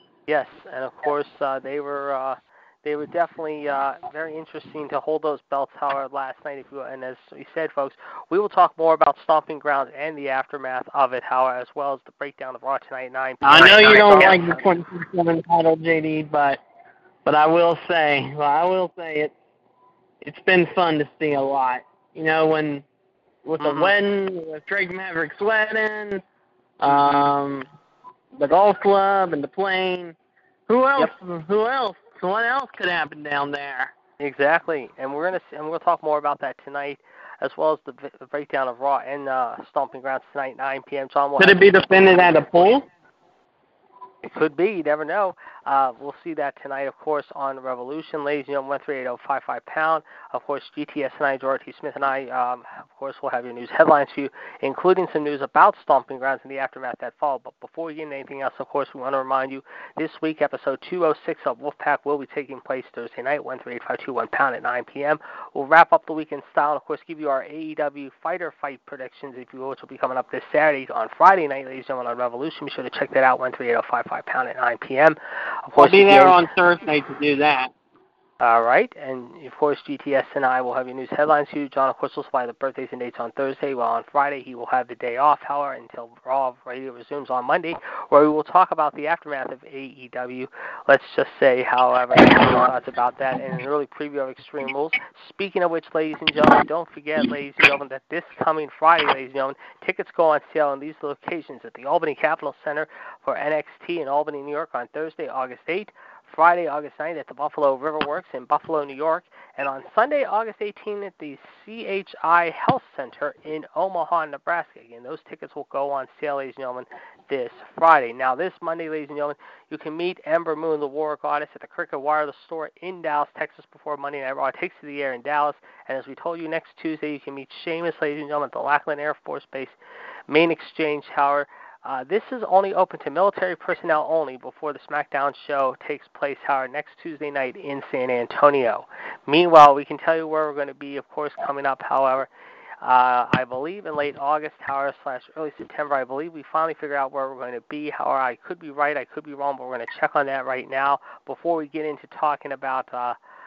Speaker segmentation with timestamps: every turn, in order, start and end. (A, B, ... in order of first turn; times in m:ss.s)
0:00.3-0:14.7 A
0:13.4-0:16.6 B
0:17.2-0:19.3 B
0:20.2-0:22.8 B
0:23.4-0:26.2 B
0:23.6-0:23.9 A
0:26.8-0:27.7 B
0:28.4-0:30.2 B
0:30.7-0:33.9 B
0:34.2-0:41.7 A
0:41.4-0:42.9 B
0:44.2-1:16.4 A
1:15.8-1:17.7 B
1:18.4-2:09.8 A
2:10.3-2:22.3 A
2:22.8-2:33.2 A